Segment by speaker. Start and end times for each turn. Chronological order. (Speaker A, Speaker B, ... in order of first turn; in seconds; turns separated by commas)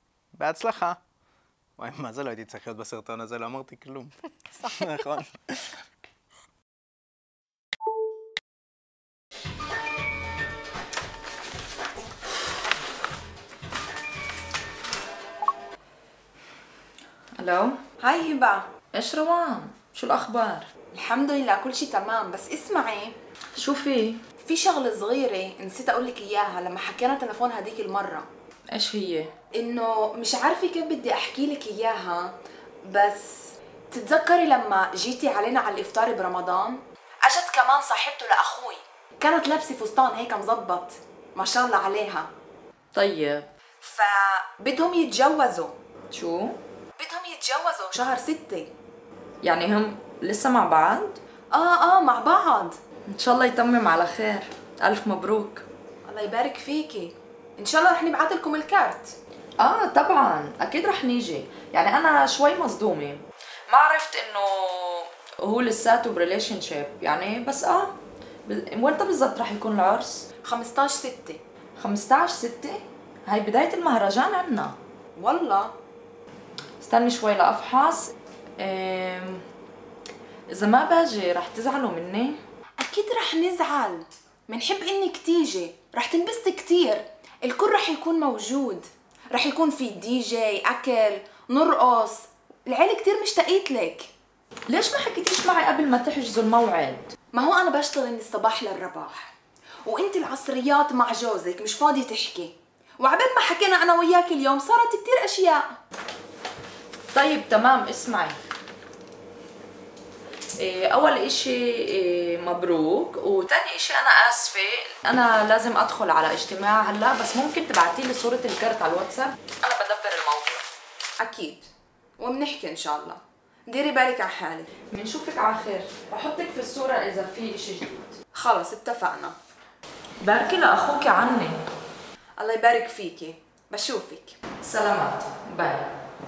Speaker A: 0.4-1.0, Speaker A: 1.8-5.4, Speaker B: 17.4-17.8, Speaker C: 18.0-18.7, Speaker B: 18.9-20.7, Speaker C: 20.9-23.2, Speaker B: 23.6-24.2, Speaker C: 24.4-28.3, Speaker B: 28.7-29.3, Speaker C: 29.5-32.3, Speaker C: 32.9-42.3, Speaker B: 42.9-43.5, Speaker C: 43.8-45.8, Speaker B: 46.1-46.6, Speaker C: 47.0-48.7, Speaker B: 49.4-51.2, Speaker C: 51.5-52.8, Speaker B: 53.1-55.6, Speaker C: 56.0-59.1, Speaker B: 59.6-70.3, Speaker C: 70.4-71.4, Speaker B: 71.8-74.8, Speaker C: 75.2-75.7, Speaker B: 76.8-79.4, Speaker B: 80.5-82.4, Speaker C: 82.8-94.1, Speaker B: 94.7-97.1, Speaker C: 97.3-99.3, Speaker C: 99.8-105.7, Speaker B: 107.1-108.4, Speaker B: 110.6-120.6, Speaker C: 121.2-124.7, Speaker B: 124.9-128.2, Speaker C: 128.3-129.4, Speaker B: 130.2-131.6, Speaker C: 132.4-134.4, Speaker B: 134.6-135.9